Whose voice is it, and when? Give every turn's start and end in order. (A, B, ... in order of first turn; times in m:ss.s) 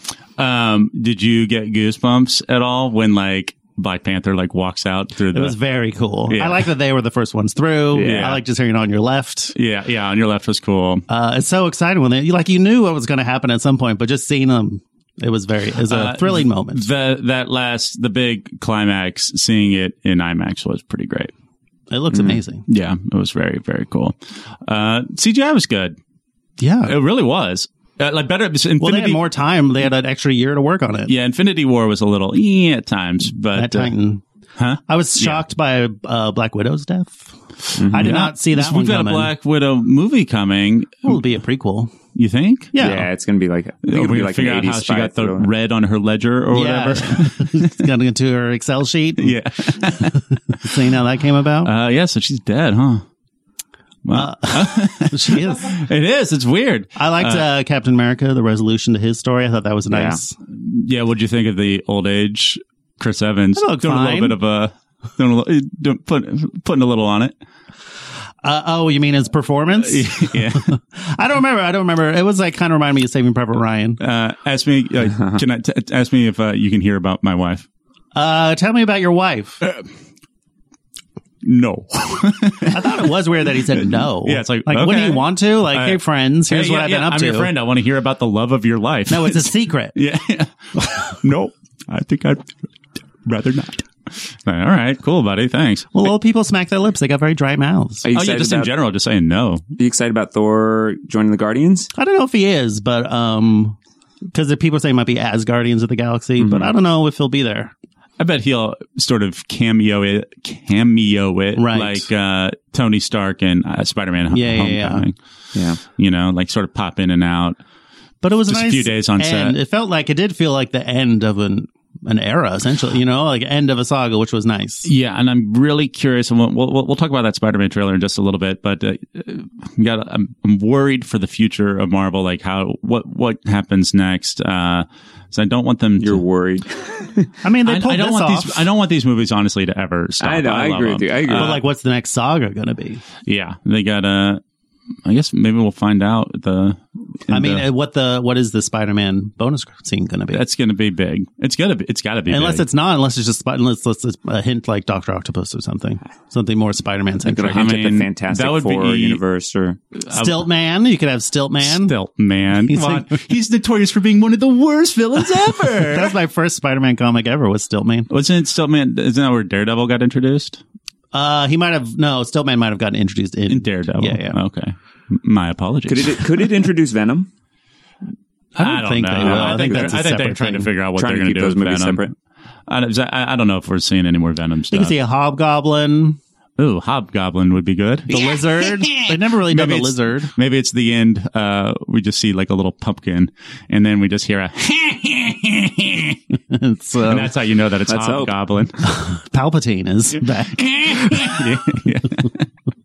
0:00.4-0:05.5 A
0:05.3-0:09.5 B
0:06.3-0:06.7 A
0:07.9-0:08.3 C
0:08.0-0:08.4 A
0:09.5-0:11.0 A
0:11.1-0:16.8 B
0:15.9-0:21.3 A
0:21.9-0:22.6 B
0:22.7-0:26.0 A
0:26.6-0:26.9 B
0:26.8-0:29.2 A
0:28.8-0:31.1 B
0:31.1-0:33.9 A
0:33.5-0:34.2 B
0:34.6-0:35.4 A
0:34.9-0:37.3 B
0:37.8-0:38.1 C
0:37.8-0:39.3 B
0:38.0-0:41.2 A
0:41.0-0:41.9 B
0:42.1-0:42.7 A
0:42.7-0:43.1 B
0:42.8-0:45.5 C
0:43.8-0:47.7 A
0:46.5-0:51.7 B
0:49.2-0:50.2 A
0:51.6-0:53.0 A
0:54.0-0:57.4 A
0:54.1-0:55.8 B
0:57.0-1:00.4 B
0:59.9-1:00.2 C
1:00.5-1:07.3 A
1:03.6-1:04.4 B
1:08.4-1:14.0 B
1:09.8-1:10.7 A
1:14.0-1:17.6 A
1:15.1-1:15.4 C
1:18.1-1:19.6 B
1:21.4-1:32.6 A
1:22.6-1:27.5 B
1:29.1-1:29.9 B
1:33.2-1:36.0 A
1:35.9-1:38.0 B
1:38.0-1:38.7 C
1:38.1-1:39.6 A
1:39.8-1:41.9 C
1:42.0-1:43.8 B
1:44.3-1:47.7 B
1:46.4-1:46.7 C
1:48.2-1:55.1 A
1:51.5-1:52.1 B
1:54.3-1:55.0 B
1:55.5-1:55.8 C
1:56.0-1:57.6 A
1:58.2-2:04.9 B
1:58.5-1:59.6 A
2:04.8-2:16.2 A
2:16.0-2:17.3 C
2:17.4-2:18.6 B
2:17.6-2:21.6 A
2:20.2-2:21.6 C
2:21.3-2:23.0 B
2:23.2-2:24.4 A
2:25.0-2:27.6 A
2:27.3-2:30.4 B
2:30.3-2:32.6 A
2:32.3-2:37.7 B
2:37.2-2:39.8 C
2:37.4-2:39.2 A
2:40.0-2:40.4 A
2:40.1-2:41.9 B
2:41.6-2:46.1 A
2:42.6-2:43.2 B
2:45.8-2:48.1 B
2:48.1-2:50.6 A
2:51.1-2:54.4 B
2:53.5-2:56.3 A
2:55.9-2:57.3 C
2:58.6-3:02.0 A
2:58.6-3:00.7 B
2:59.2-2:59.9 C
3:01.0-3:02.1 C
3:02.7-3:04.9 A
3:04.7-3:06.2 B
3:06.6-3:09.0 A
3:08.1-3:10.3 B
3:09.5-3:16.2 A
3:16.5-3:17.3 B
3:17.0-3:18.7 A
3:17.9-3:18.3 C
3:18.8-3:21.5 B
3:20.5-3:22.4 A